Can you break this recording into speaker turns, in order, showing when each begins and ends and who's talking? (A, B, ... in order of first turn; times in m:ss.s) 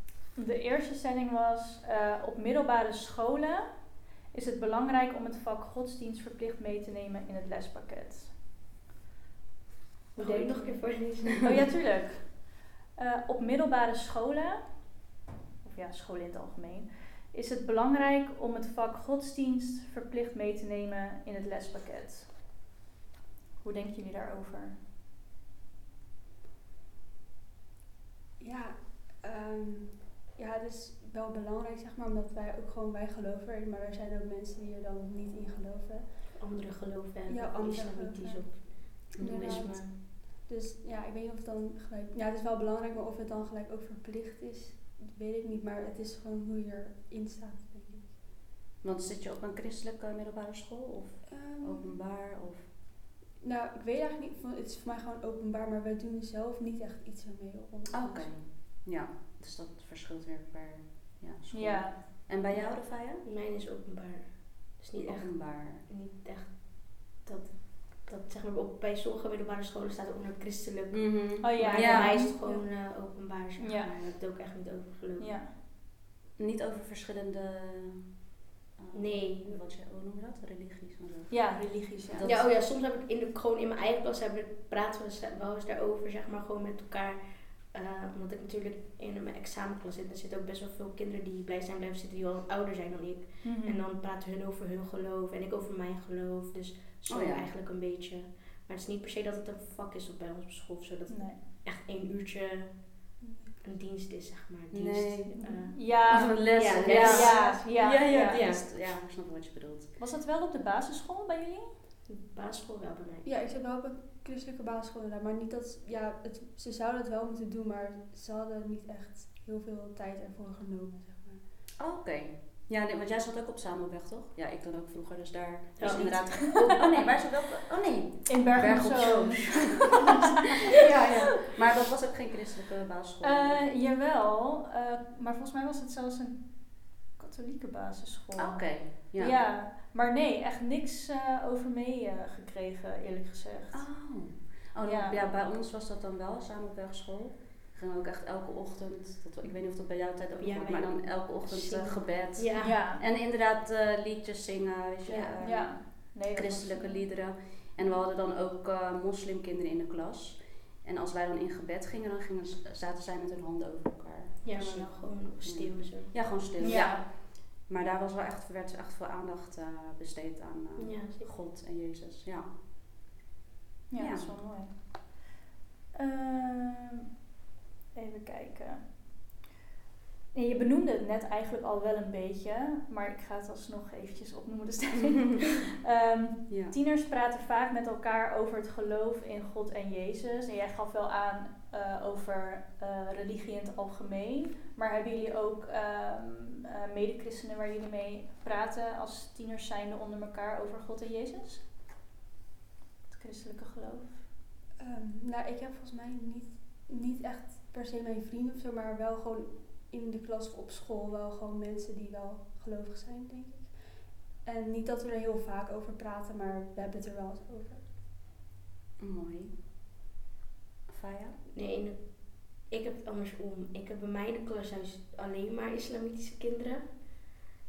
0:00.4-0:08.3 A
0:10.2-0:11.6 B
0:10.2-0:14.9 A
0:15.6-0:22.3 A
0:23.6-0:24.8 A
0:28.4-0:36.4 C
0:36.4-0:39.9 B
0:37.3-0:48.2 C
0:39.2-0:39.7 D
0:48.8-0:52.7 D
0:51.3-0:51.9 C
0:53.4-0:58.4 C
0:57.9-1:03.2 D
1:01.5-1:02.0 A
1:02.5-1:15.4 B
1:05.0-1:05.8 D
1:10.9-1:12.2 D
1:11.4-1:12.4 A
1:12.2-1:12.6 C
1:13.6-1:13.9 A
1:15.2-1:15.5 A
1:16.4-1:18.1 D
1:18.8-1:22.5 D
1:18.9-1:19.6 B
1:21.3-1:22.2 A
1:22.2-1:48.6 B
1:33.4-1:33.8 A
1:37.1-1:37.5 D
1:41.1-1:41.4 A
1:43.2-1:43.5 A
1:44.7-1:49.9 D
1:45.4-1:48.5 A
1:50.0-1:51.7 A
1:52.1-1:53.2 B
1:53.2-2:01.4 C
2:01.8-2:10.1 D
2:05.8-2:06.6 B
2:05.8-2:06.4 A
2:08.3-2:10.1 A
2:10.7-2:13.6 D
2:13.2-2:23.9 A
2:18.4-2:19.4 D
2:23.7-2:52.5 D
2:24.8-2:25.2 A
2:30.4-2:32.7 B
2:32.6-2:33.0 A
2:35.0-2:35.4 B
2:35.4-2:37.1 A
2:44.4-2:46.8 B
2:46.6-2:47.0 A
2:50.8-2:51.3 B
2:53.9-2:55.2 A
2:54.0-2:54.5 D
2:55.9-2:57.0 A
2:57.9-2:59.0 A
3:00.3-3:21.6 A
3:06.5-3:06.7 D
3:23.1-3:24.2 A
3:24.8-3:37.8 C
3:39.0-3:39.6 D
3:40.9-3:41.4 D
3:41.5-3:47.2 B